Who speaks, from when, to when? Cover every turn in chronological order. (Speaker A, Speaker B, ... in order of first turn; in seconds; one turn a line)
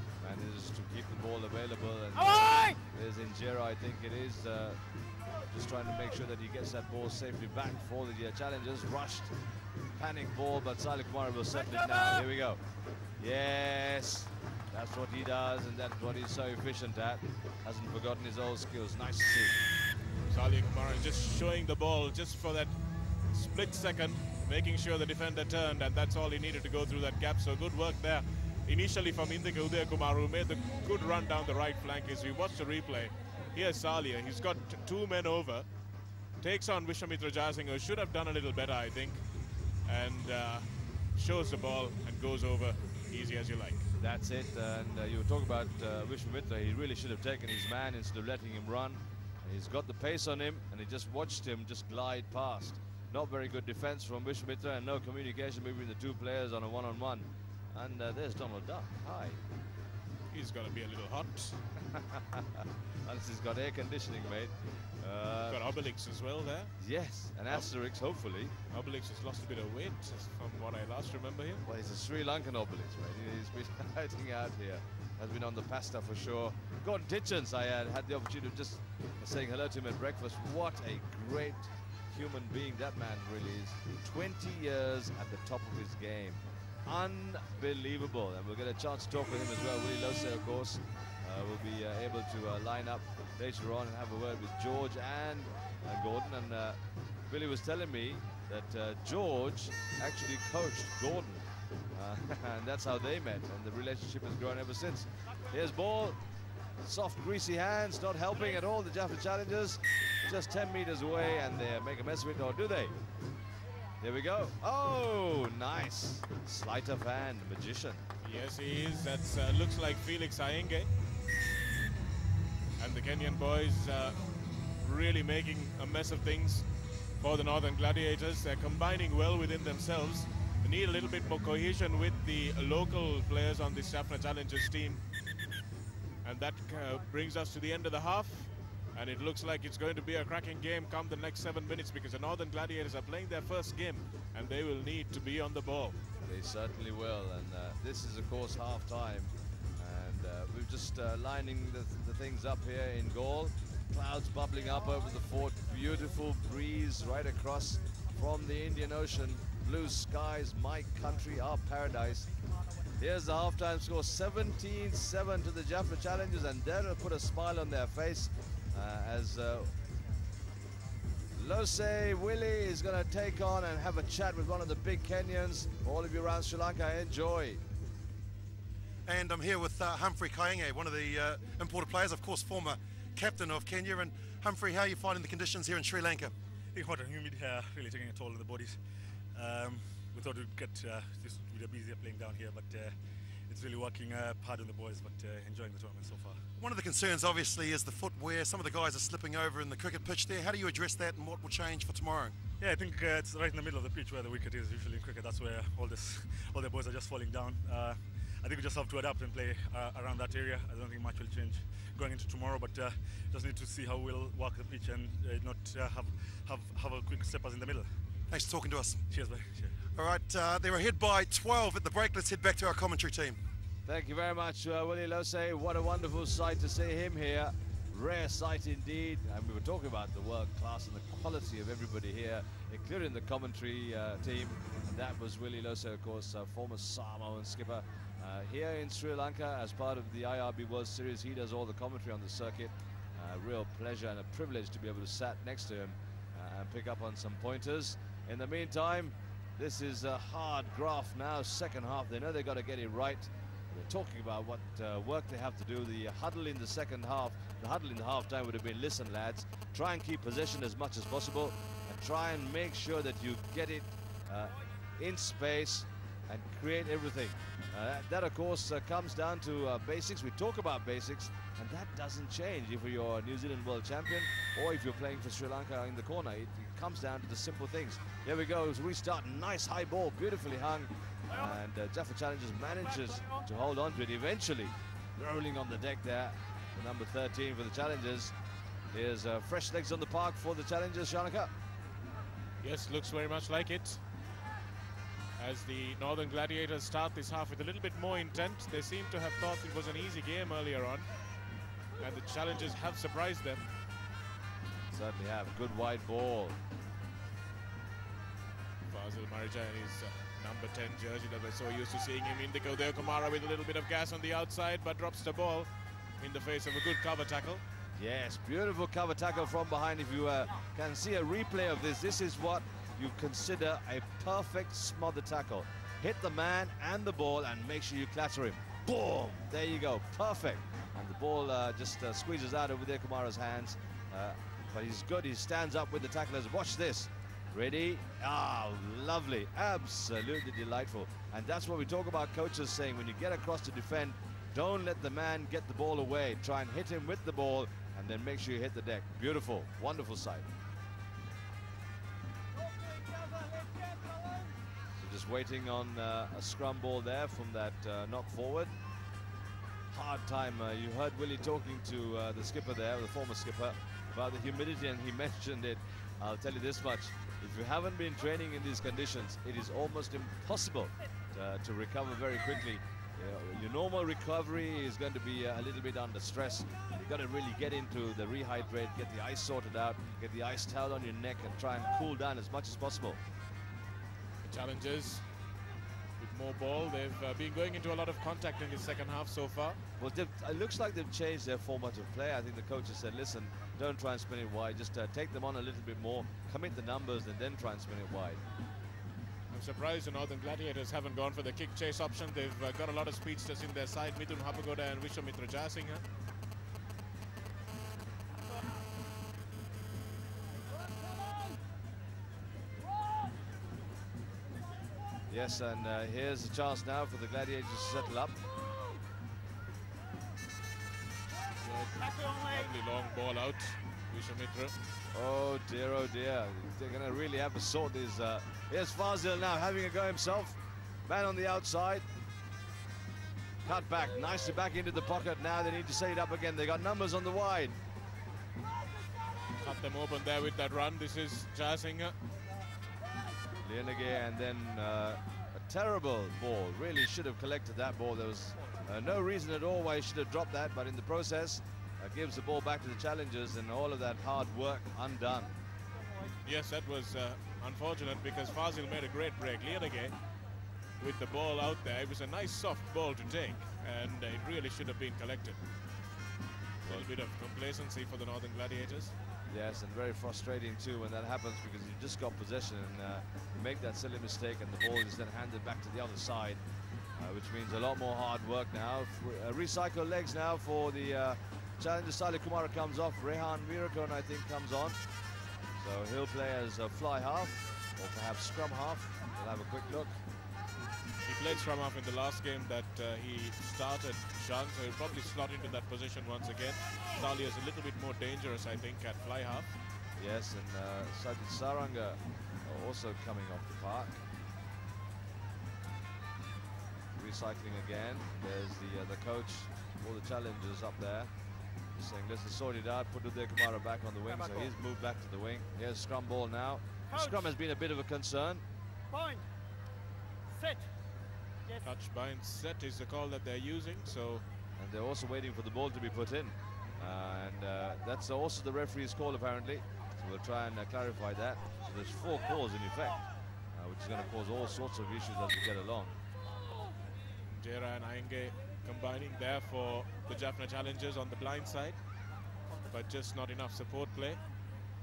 Speaker A: 0.2-4.8
Speaker A: 5.5-9.3
Speaker A: 9.9-12.6
Speaker A: 13.2-19.6
Speaker B: 20.3-22.7
Speaker B: 23.3-35.7
Speaker B: 36.4-39.2
Speaker B: 39.9-43.9
Speaker A: 44.0-59.4
Speaker B: 60.3-61.6
Speaker A: 61.9-65.6
Speaker B: 65.5-66.8
Speaker A: 66.8-68.5
Speaker B: 68.7-71.6
Speaker A: 71.7-96.8
Speaker A: 97.3-106.2
Speaker A: 106.8-113.0
Speaker A: 114.0-118.0
Speaker B: 118.2-120.9
Speaker B: 122.8-124.3
Speaker B: 124.8-126.7
Speaker B: 127.2-135.0
Speaker B: 136.2-146.0
Speaker A: 146.2-162.3
Speaker A: 163.0-169.7
Speaker A: 171.3-177.6
Speaker C: 179.1-186.3
Speaker D: 186.7-188.8
Speaker D: 189.3-192.9
Speaker D: 193.5-196.4
Speaker C: 196.6-202.3
Speaker D: 202.6-217.9
Speaker C: 218.3-219.0
Speaker D: 219.1-219.8
Speaker C: 219.9-223.4
Speaker A: 223.9-288.3
Speaker A: 288.9-291.5
Speaker B: 292.6-294.0
Speaker B: 295.4-301.1
Speaker B: 302.0-303.7
Speaker A: 304.9-306.6
Speaker B: 308.9-315.7
Speaker B: 316.2-317.6
Speaker A: 318.0-350.5
Speaker A: 355.0-358.7
Speaker A: 359.9-383.2
Speaker B: 384.4-385.2
Speaker B: 386.2-389.8
Speaker A: 390.0-398.4
Speaker B: 399.5-406.0
Speaker A: 415.3-418.4
Speaker B: 421.6-424.8
Speaker A: 425.1-432.1
Speaker A: 433.6-437.8
Speaker B: 439.6-442.1
Speaker A: 443.6-455.6
Speaker B: 456.4-460.1
Speaker B: 461.0-465.6
Speaker B: 466.8-469.1
Speaker A: 469.5-476.6
Speaker A: 477.2-485.0
Speaker A: 485.8-490.2
Speaker B: 491.2-499.7
Speaker A: 500.2-504.2
Speaker A: 507.2-511.3
Speaker A: 511.9-518.6
Speaker B: 521.8-524.5
Speaker A: 524.8-533.2
Speaker A: 533.7-536.2
Speaker B: 537.5-542.0
Speaker B: 542.9-544.4